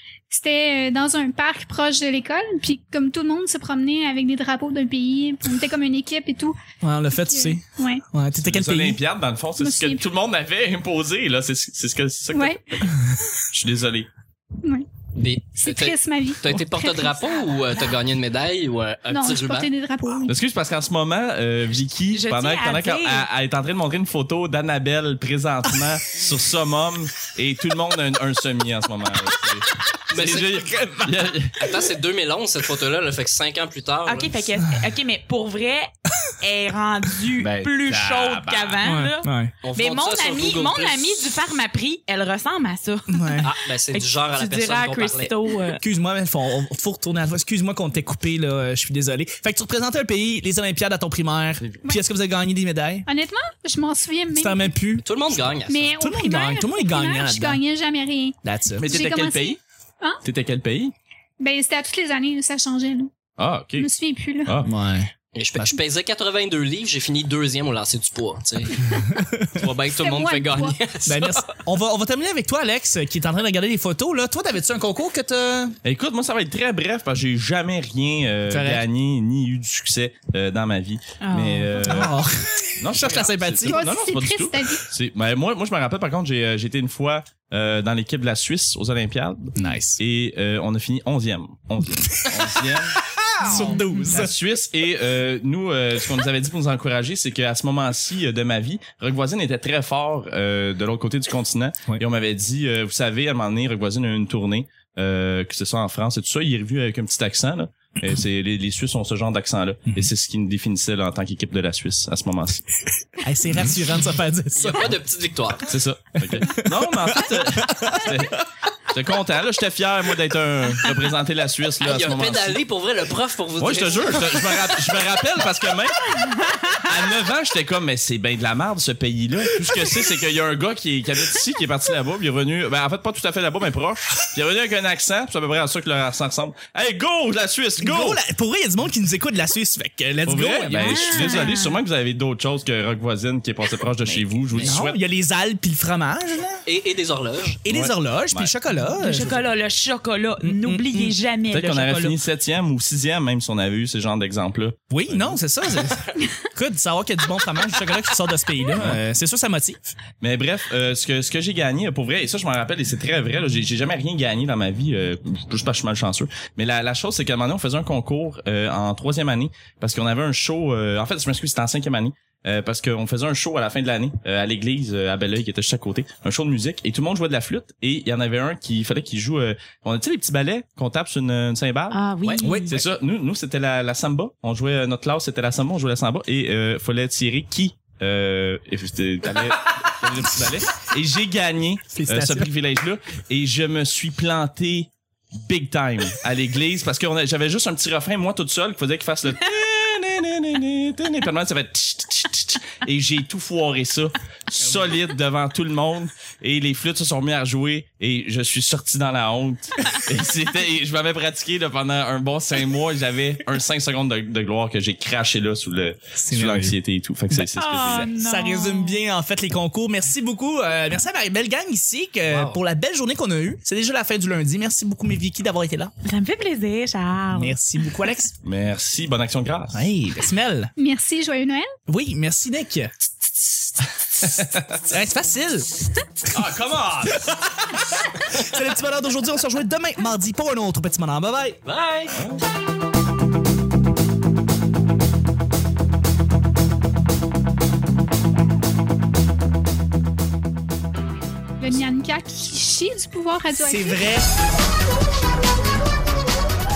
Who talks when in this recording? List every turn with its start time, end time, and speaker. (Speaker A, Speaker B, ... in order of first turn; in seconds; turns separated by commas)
Speaker A: 0.3-6.6, Speaker B: 6.8-9.0, Speaker A: 7.3-8.0, Speaker C: 8.4-14.1, Speaker A: 9.6-10.0, Speaker A: 12.3-12.6, Speaker A: 14.6-14.9, Speaker D: 15.1-19.7, Speaker A: 15.6-17.5, Speaker A: 19.1-20.3, Speaker C: 20.2-31.7, Speaker E: 22.1-23.3, Speaker D: 30.1-30.6, Speaker B: 30.6-31.3, Speaker D: 31.6-34.3, Speaker E: 34.0-45.8, Speaker B: 34.6-34.9, Speaker C: 37.4-39.0, Speaker B: 38.8-39.5, Speaker D: 39.6-41.4, Speaker B: 43.1-43.5, Speaker D: 43.4-45.3, Speaker B: 45.8-53.0, Speaker A: 53.0-54.7, Speaker B: 54.3-55.0, Speaker D: 55.0-55.9, Speaker A: 55.6-60.2, Speaker B: 56.0-57.6, Speaker B: 58.4-58.9, Speaker C: 58.8-59.6, Speaker C: 60.2-60.9, Speaker A: 61.4-63.1, Speaker C: 63.4-63.9, Speaker A: 63.8-64.6, Speaker C: 64.5-64.7, Speaker B: 64.6-65.7, Speaker D: 65.3-71.6, Speaker B: 69.0-69.6, Speaker A: 69.9-70.8, Speaker B: 71.0-75.8, Speaker C: 75.8-82.2, Speaker B: 78.5-78.8, Speaker E: 81.2-82.0, Speaker B: 81.8-83.8, Speaker C: 82.8-112.6, Speaker A: 83.7-84.8, Speaker B: 89.5-90.0, Speaker B: 92.0-92.4, Speaker B: 93.0-94.3, Speaker E: 93.5-94.1, Speaker B: 113.2-115.0, Speaker D: 114.5-115.7, Speaker C: 115.7-122.6, Speaker B: 116.4-118.2, Speaker D: 121.8-124.5, Speaker C: 123.6-138.2, Speaker B: 129.6-130.0, Speaker B: 137.8-141.5, Speaker C: 140.2-145.0, Speaker E: 140.8-141.8, Speaker B: 144.1-146.6, Speaker D: 146.6-147.6, Speaker B: 147.6-149.5, Speaker C: 147.7-148.5, Speaker E: 149.0-152.1, Speaker B: 150.4-151.1, Speaker C: 151.5-155.4, Speaker B: 151.8-152.1, Speaker B: 154.9-159.8, Speaker C: 158.7-159.0, Speaker C: 160.2-182.0, Speaker E: 181.9-182.8, Speaker D: 182.2-182.5, Speaker B: 182.4-182.8, Speaker C: 182.7-218.1, Speaker B: 191.9-192.5, Speaker B: 216.2-216.8, Speaker E: 217.4-219.0, Speaker B: 217.8-225.9, Speaker D: 222.2-222.6, Speaker E: 226.0-227.6, Speaker B: 227.3-228.3, Speaker C: 228.4-229.9, Speaker B: 229.7-230.7, Speaker A: 230.8-231.7, Speaker B: 231.9-232.9, Speaker C: 234.2-234.8, Speaker B: 234.4-235.7, Speaker C: 236.3-238.0, Speaker B: 238.3-241.6, Speaker D: 241.6-242.2, Speaker A: 251.6-254.1, Speaker B: 253.6-254.3